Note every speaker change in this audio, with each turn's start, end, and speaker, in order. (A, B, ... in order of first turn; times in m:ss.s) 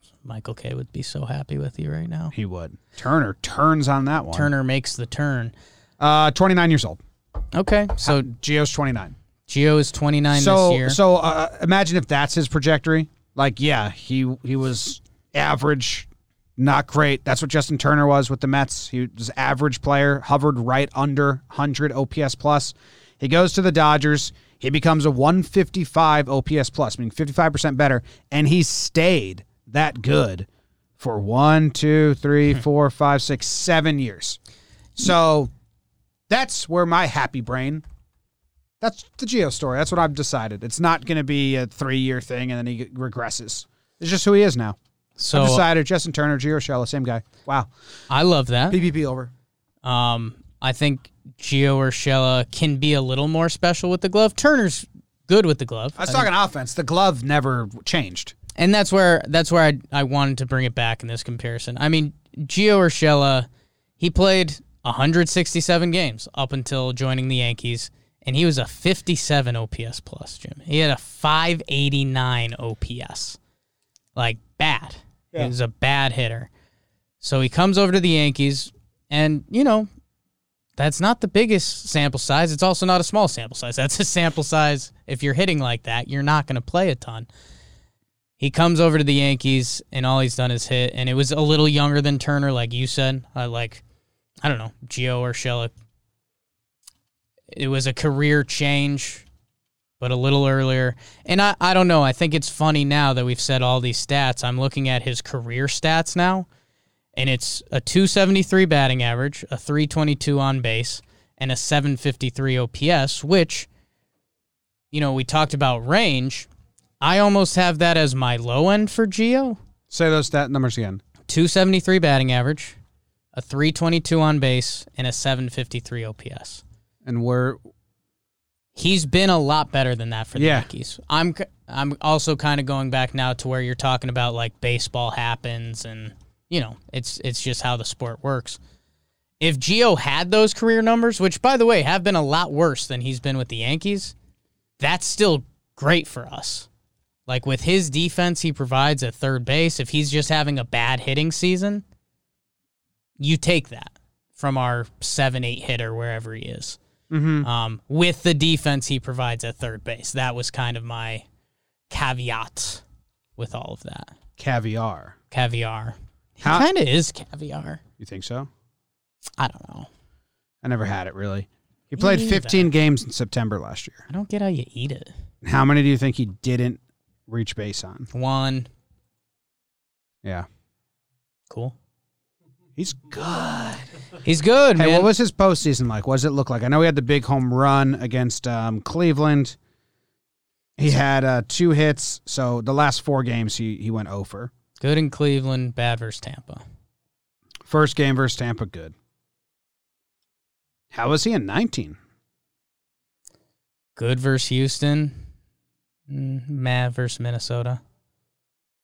0:00.2-0:02.3 A
0:02.3-0:04.5 B
0:04.3-0:05.5 A
0:06.0-0:07.0 B
0:07.5-0:08.3 A
0:08.0-0:09.1 B
0:09.5-0:11.0 A
0:10.3-0:30.5 B
0:31.0-0:34.4 B
0:35.0-0:35.5 B
0:36.3-0:37.8 B
0:38.8-0:44.8 B
0:45.2-0:45.6 A
0:45.3-0:47.7 B
0:48.1-0:48.8 A
0:48.7-0:49.3 B
0:49.8-0:56.3 A
0:56.0-0:58.3 B
0:58.6-1:03.5 A
1:04.0-1:13.4 A
1:14.1-1:16.5 A
1:17.2-1:19.9 A
1:20.8-1:27.3 A
1:28.4-1:33.8 A
1:34.4-1:35.7 A
1:37.5-1:39.2 A
1:40.0-1:46.5 A
1:47.2-1:53.7 A
1:54.9-1:56.5 A
1:57.0-1:59.6 A
1:59.9-2:01.0 B
2:01.3-2:02.8 A
2:03.3-2:06.6 A
2:07.0-2:07.6 B
2:08.8-2:18.6 A
2:10.4-2:10.7 B
2:19.4-2:24.1 A
2:24.8-2:26.7 A
2:27.3-2:31.8 A
2:33.2-2:36.8 A
2:37.1-2:37.5 B
2:37.4-2:41.2 A
2:41.9-2:42.8 A
2:43.4-2:44.1 A
2:44.4-2:45.2 B
2:45.3-2:47.8 A
2:46.4-2:46.7 B
2:48.0-2:48.5 B
2:49.4-2:49.9 A
2:50.6-2:54.1 B
2:51.9-2:52.7 A
2:54.1-2:55.1 A
2:55.4-2:58.1 B
2:58.1-2:58.7 A
3:01.5-3:01.8 A
3:02.8-3:03.9 B
3:04.2-3:05.1 A
3:04.8-3:09.6 B
3:10.8-3:14.5 B
3:14.8-3:16.6 A
3:17.6-3:18.9 B
3:20.9-3:22.0 B
3:24.0-3:25.2 A
3:26.1-3:27.8 A